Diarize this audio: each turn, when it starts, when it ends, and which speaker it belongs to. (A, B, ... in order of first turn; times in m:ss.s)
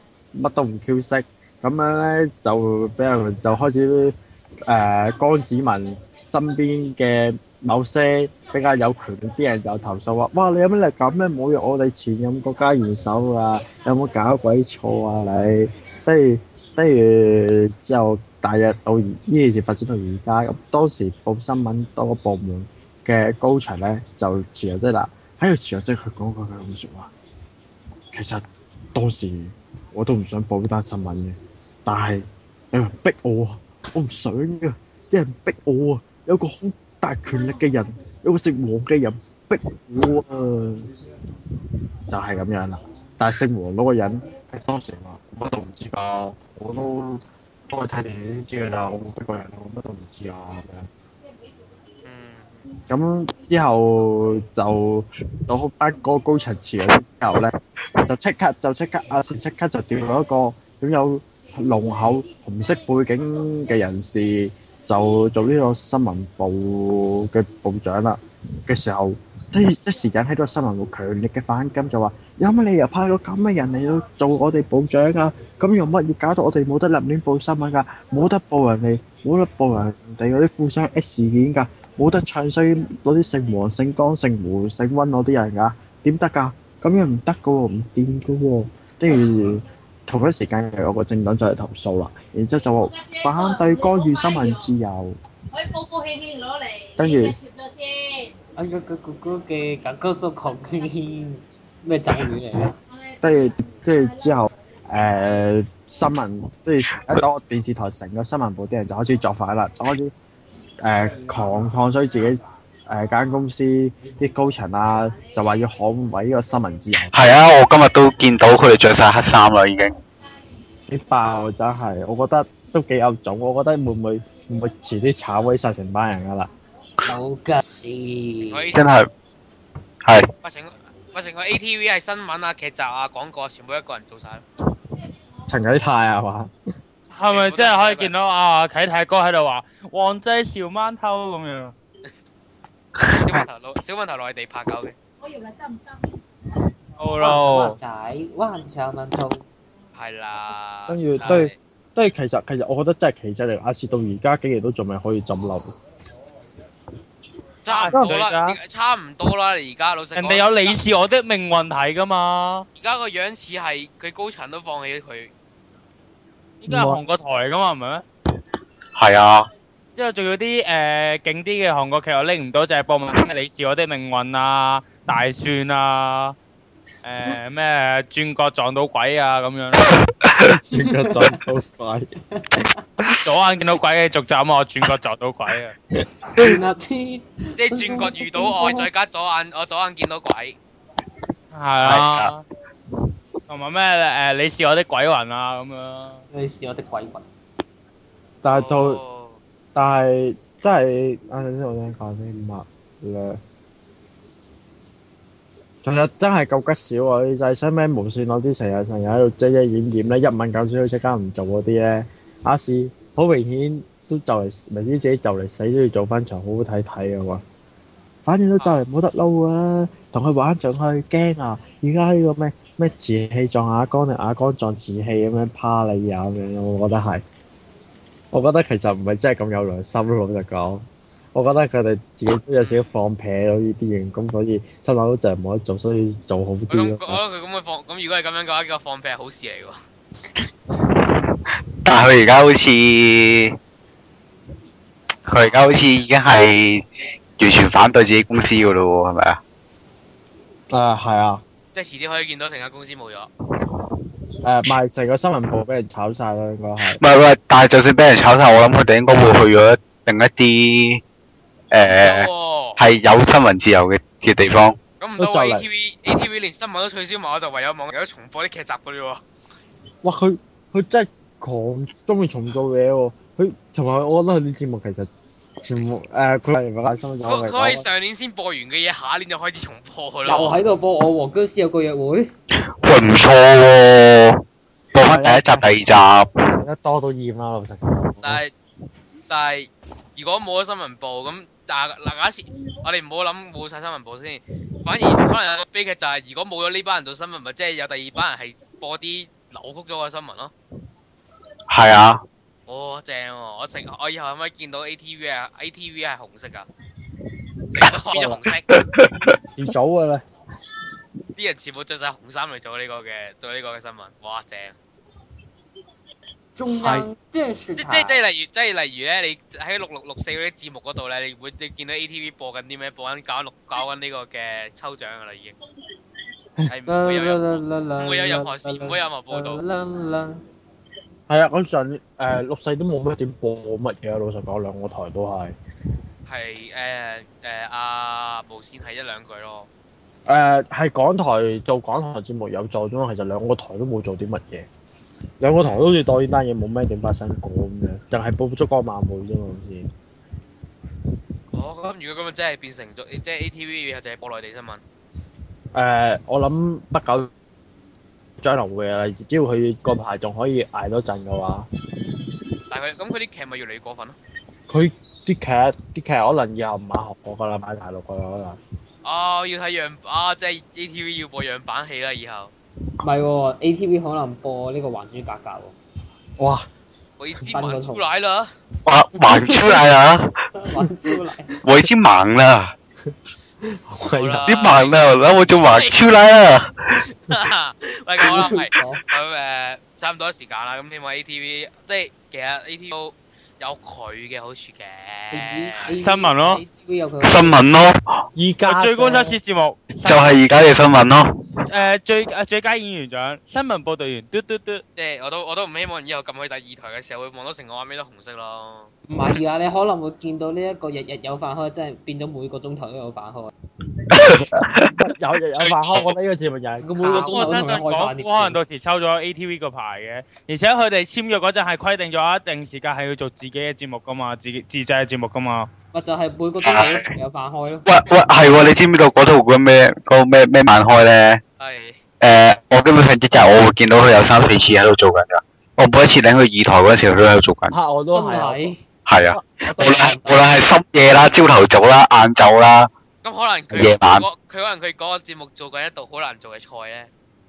0:00.3-0:04.2 A
0:04.7-0:27.1 A
0:28.1-0:28.4 A
0:28.9-0:40.9 A
0:42.1-0:50.9 A
0:52.0-0:52.6 B
0:52.9-1:35.2 A
1:37.0-1:37.4 A
1:38.6-1:42.8 C
1:43.2-1:50.1 A
1:50.8-1:52.4 A
1:52.9-1:57.1 A
1:57.1-1:59.9 D
2:00.9-2:06.5 A
2:07.0-2:08.7 C
2:08.5-2:08.9 B
2:08.7-2:09.1 D
2:10.4-2:14.4 B
2:15.5-2:16.5 A
2:17.1-2:21.7 E
2:17.2-2:18.1 B
2:23.1-2:25.0 B
2:27.0-2:27.8 E
2:27.2-2:29.4 C
2:29.9-2:31.6 B
2:30.9-2:35.7 A
2:37.6-2:40.8 B
2:37.7-2:38.6 E
2:40.1-2:42.6 E
2:42.8-2:45.3 B
2:46.6-2:48.0 E
2:46.7-2:47.0 A
2:48.9-2:49.5 D
2:50.0-2:56.4 E
2:57.0-2:59.9 E
3:00.5-3:02.1 A
3:00.7-3:01.4 C
3:02.3-3:02.8 C
3:03.2-3:05.7 E
3:06.3-3:08.9 C
3:07.6-3:10.6 B
3:11.5-3:12.4 E
3:11.8-3:12.3 D
3:13.5-3:16.2 E
3:16.3-3:17.2 C
3:18.4-3:19.0 A
3:18.5-3:19.4 B
3:19.7-3:23.4 A
3:25.8-3:37.4 A
3:38.2-3:47.2 A
3:38.6-3:38.8 B
3:48.3-3:57.2 A
3:52.6-3:52.9 B
3:56.7-3:59.8 B
4:01.8-4:03.6 D
4:05.3-4:06.8 D
4:05.4-4:05.8 B
4:07.4-4:09.4 D
4:10.7-4:11.4 A
4:11.7-4:13.3 B
4:14.4-4:17.0 A
4:16.8-4:21.0 D
4:21.7-4:24.8 D
4:21.8-4:22.8 B
4:25.0-4:29.2 B
4:25.2-4:25.6 A
4:30.0-4:35.1 A
4:35.6-4:37.8 A
4:37.2-4:40.6 B
4:40.2-4:42.3 C
4:42.8-4:46.3 D
4:45.0-4:45.7 A
4:46.5-4:48.4 A
4:48.2-4:48.5 B
4:49.3-5:00.5 B
5:01.7-5:02.2 D
5:02.7-5:06.7 B
5:07.7-5:08.7 B
5:08.1-5:08.4 A
5:08.7-5:09.3 D
5:09.6-5:10.2 A
5:11.4-5:14.8 B
5:16.6-5:18.2 C
5:16.7-5:17.1 A
5:17.8-5:25.6 B
5:26.7-5:29.6 B
5:26.9-5:30.4 C
5:31.3-5:35.5 A
5:36.3-5:39.7 B
5:40.3-5:44.7 A
5:45.4-5:49.9 A
5:51.5-5:54.8 B
5:55.7-5:57.3 A
5:58.4-6:01.7 A
6:02.7-6:04.2 B
6:04.7-6:08.6 A
6:09.0-6:12.5 B
6:13.0-6:15.7 C
6:16.4-6:16.6 A
6:17.2-6:18.5 B
6:17.5-6:18.0 C
6:18.8-6:20.3 D
6:19.2-6:19.8 C
6:20.5-6:21.5 C
6:21.6-6:22.7 D
6:23.6-6:24.4 A
6:24.1-6:25.0 B
6:24.4-6:27.0 D
6:25.7-6:26.0 B
6:27.3-6:35.9 B
6:28.2-6:29.0 C
6:35.3-6:37.6 C
6:36.0-6:36.6 E
6:37.2-6:38.1 D
6:38.4-6:39.4 A
6:38.6-6:40.4 E
6:40.0-6:41.3 D
6:41.7-6:44.8 E
6:45.0-6:48.9 B
6:49.1-6:53.5 C
6:54.1-6:54.9 D
6:54.8-6:57.5 A
6:55.6-6:56.1 D
6:56.8-6:58.6 C
6:57.1-6:57.5 B
6:57.2-7:05.7 E
7:05.9-7:07.8 C
7:06.6-7:07.0 D
7:07.8-7:11.4 D
7:11.6-7:12.0 B
7:12.2-7:17.8 D
7:17.7-7:18.7 A
7:18.1-7:18.8 C
7:19.1-7:22.9 D
7:19.3-7:20.2 A
7:19.8-7:20.4 C
7:23.2-7:27.1 B
7:23.7-7:24.2 D